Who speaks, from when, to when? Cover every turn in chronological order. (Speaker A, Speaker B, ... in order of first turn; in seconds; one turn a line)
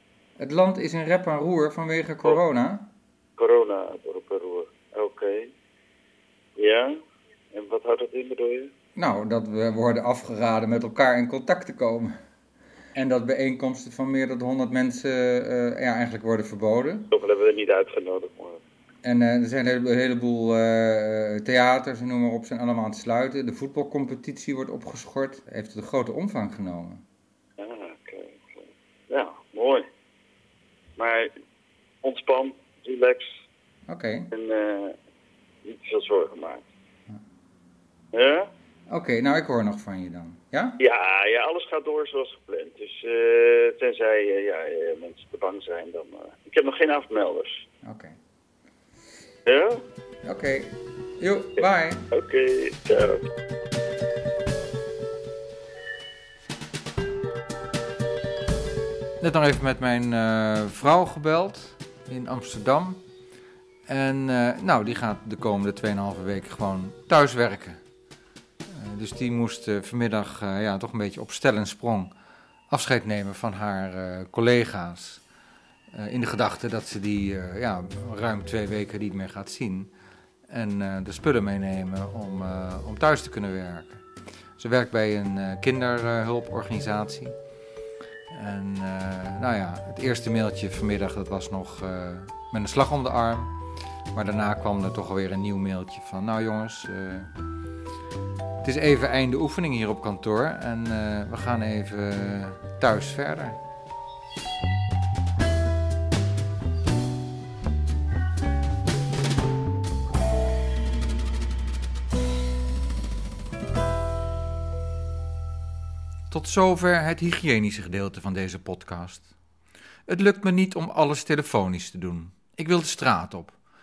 Speaker A: 0.4-2.9
Speaker B: 3.4-5.5
Speaker B: 6.6-6.9
Speaker B: 7.5-8.7
Speaker A: 8.9-12.2
Speaker A: 12.9-17.1
Speaker B: 17.1-18.6
Speaker A: 19.0-27.0
Speaker B: 27.6-29.9
Speaker B: 31.0-31.3
Speaker B: 32.0-33.3
Speaker A: 33.9-34.3
Speaker B: 34.3-35.0
Speaker B: 35.6-36.6
Speaker B: 38.1-38.5
Speaker A: 38.9-40.8
Speaker B: 40.8-47.6
Speaker A: 47.8-48.1
Speaker B: 49.5-49.8
Speaker A: 50.2-52.0
Speaker B: 52.1-53.2
Speaker A: 59.2-63.0
Speaker A: 63.9-67.8
Speaker A: 68.7-72.1
Speaker A: 72.7-75.2
Speaker A: 75.9-79.9
Speaker A: 80.5-84.0
Speaker A: 84.6-87.3
Speaker A: 88.3-93.5
Speaker A: 94.1-97.3
Speaker A: 98.6-103.6
Speaker A: 116.3-119.3
Speaker A: 120.1-123.5